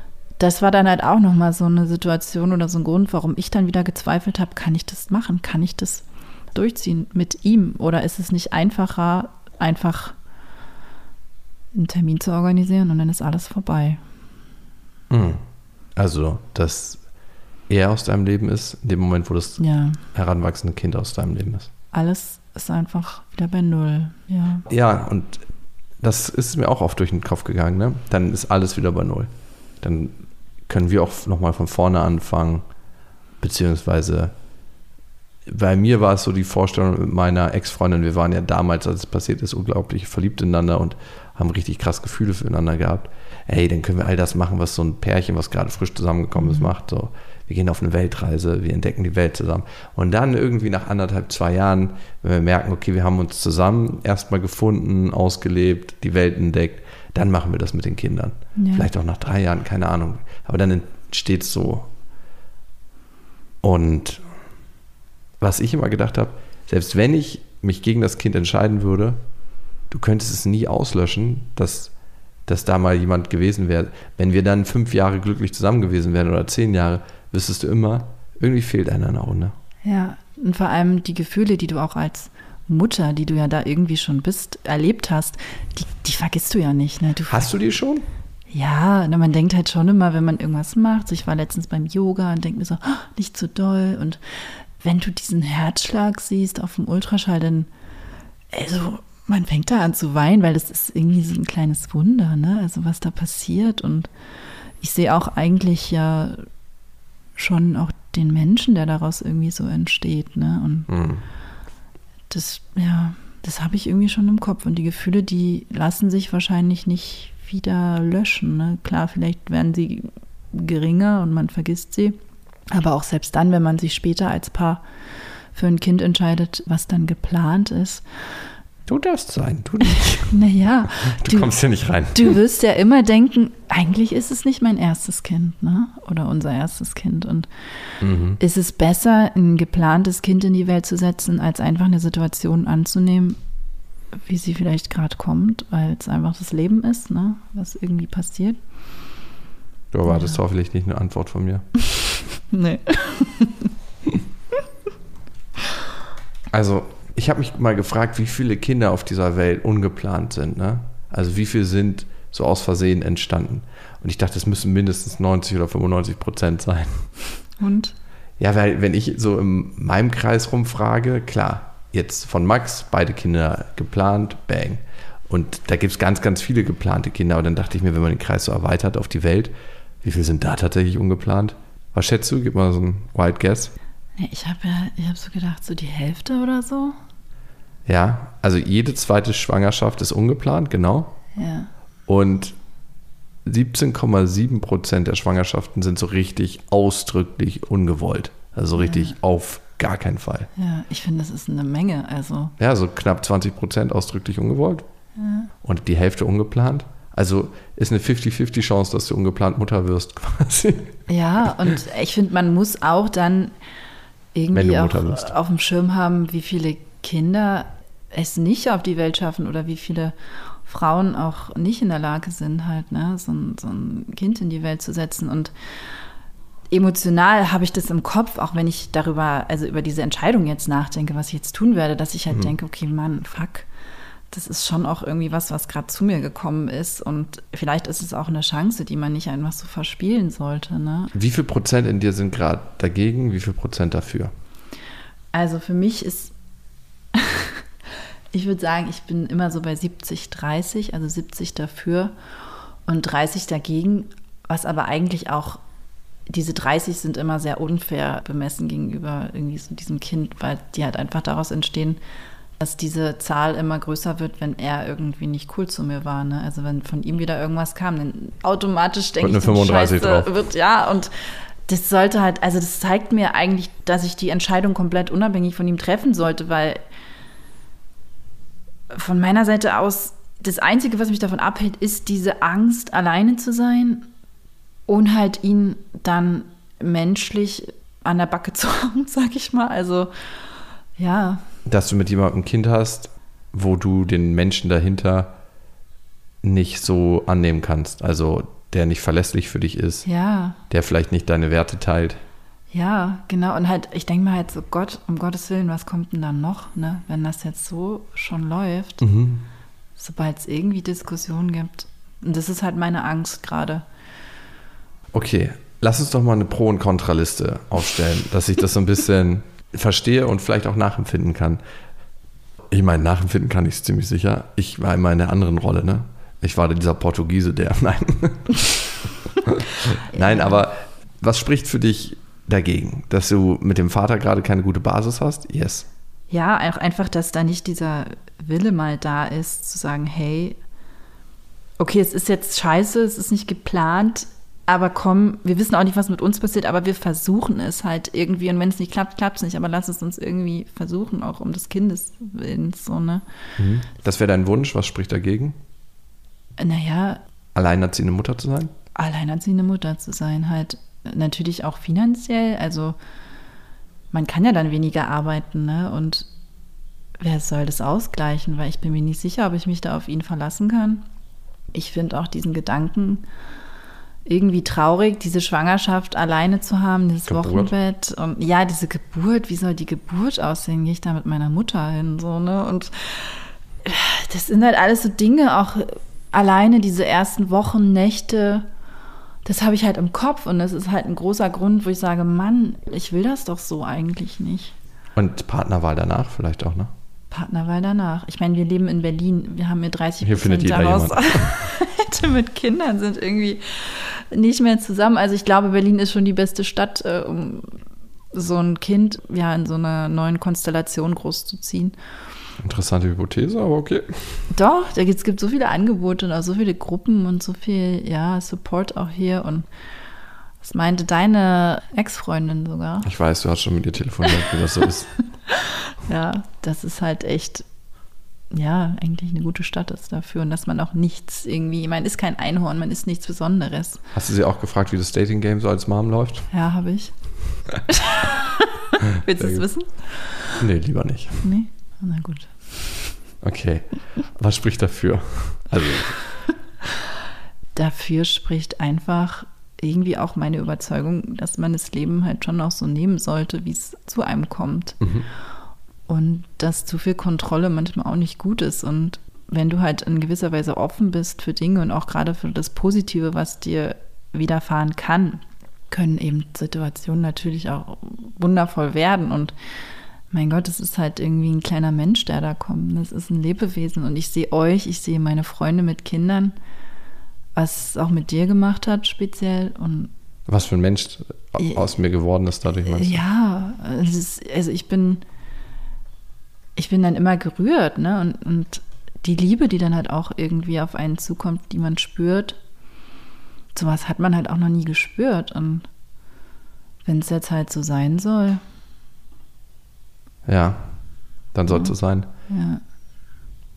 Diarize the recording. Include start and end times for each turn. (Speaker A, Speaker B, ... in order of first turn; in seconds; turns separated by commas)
Speaker A: 0.4-10.2, Speaker A: 11.7-14.0, Speaker B: 15.1-15.4, Speaker B: 16.0-17.0, Speaker B: 17.7-19.6, Speaker A: 19.6-20.0, Speaker B: 20.1-21.7, Speaker A: 21.9-24.7, Speaker B: 24.7-25.4, Speaker B: 26.0-29.3, Speaker B: 29.8-30.2, Speaker B: 30.7-32.7, Speaker B: 33.4-34.3, Speaker B: 35.5-61.9, Speaker A: 46.4-46.7, Speaker A: 58.6-58.9, Speaker B: 63.6-64.2, Speaker B: 65.4-69.2, Speaker B: 69.9-71.9, Speaker B: 72.5-79.6, Speaker A: 79.8-87.5, Speaker B: 87.3-88.1, Speaker A: 88.5-97.7, Speaker A: 98.5-104.1, Speaker A: 104.8-106.5, Speaker A: 107.4-110.9, Speaker B: 110.9-111.2, Speaker A: 112.3-122.2, Speaker A: 122.7-124.8, Speaker A: 125.5-128.2, Speaker B: 128.9-130.4, Speaker A: 130.2-131.6, Speaker B: 131.0-132.4, Speaker A: 132.1-137.5, Speaker B: 138.0-138.4, Speaker A: 138.4-143.4, Speaker A: 144.3-148.6, Speaker B: 149.9-151.7, Speaker A: 150.1-150.4, Speaker A: 152.4-153.7, Speaker B: 156.5-167.1, Speaker A: 167.6-168.0, Speaker B: 168.4-183.7, Speaker A: 184.2-187.0, Speaker B: 187.9-191.2, Speaker A: 191.4-191.7, Speaker B: 192.1-192.6, Speaker B: 193.4-200.5, Speaker A: 198.8-199.1, Speaker A: 200.6-202.5, Speaker B: 202.6-204.9, Speaker A: 205.2-205.5, Speaker B: 205.6-211.0, Speaker A: 211.1-213.5, Speaker A: 214.3-225.5, Speaker B: 214.5-215.3, Speaker A: 226.7-233.7, Speaker A: 234.3-241.1, Speaker B: 241.1-244.3, Speaker A: 245.3-246.3, Speaker A: 247.1-247.6, Speaker A: 248.3-252.1, Speaker A: 252.9-255.6, Speaker A: 256.3-262.0, Speaker A: 262.6-276.8, Speaker B: 269.2-270.3, Speaker A: 278.9-284.1, Speaker A: 284.9-290.1, Speaker A: 291.0-291.4, Speaker B: 291.7-295.4, Speaker B: 296.4-300.1, Speaker A: 300.1-300.6, Speaker B: 300.7-302.2, Speaker A: 302.7-309.0, Speaker B: 309.0-309.4, Speaker A: 310.0-313.9, Speaker B: 315.1-321.6, Speaker B: 322.7-328.6, Speaker B: 329.5-335.9, Speaker A: 330.1-330.6, Speaker A: 336.3-340.6, Speaker A: 341.8-353.2, Speaker B: 353.6-355.6, Speaker A: 356.6-357.2, Speaker B: 357.6-358.7, Speaker A: 358.9-363.0, Speaker A: 364.1-366.3, Speaker A: 367.2-371.1, Speaker A: 371.7-373.2, Speaker A: 374.3-388.7, Speaker B: 377.3-377.7, Speaker A: 389.4-394.8, Speaker B: 395.2-396.9, Speaker A: 397.3-407.8, Speaker B: 400.2-401.6, Speaker A: 408.3-412.0, Speaker B: 412.6-414.5, Speaker A: 414.5-419.7, Speaker A: 420.6-423.1, Speaker B: 423.0-425.1, Speaker A: 426.1-427.7, Speaker A: 428.5-434.0, Speaker B: 434.1-436.5, Speaker A: 436.5-437.3, Speaker A: 437.9-440.6, Speaker B: 439.3-439.7, Speaker B: 440.6-441.5, Speaker A: 441.4-443.2, Speaker B: 443.4-446.2, Speaker A: 447.8-455.1, Speaker B: 455.0-455.3, Speaker A: 456.1-469.5, Speaker A: 470.3-476.6, Speaker A: 477.6-480.1, Speaker B: 480.5-483.2, Speaker A: 481.6-481.9, Speaker A: 482.9-485.2, Speaker A: 486.8-492.6, Speaker A: 493.8-495.9, Speaker A: 497.1-498.6, Speaker B: 500.5-502.3, Speaker A: 501.7-502.0, Speaker A: 502.5-502.8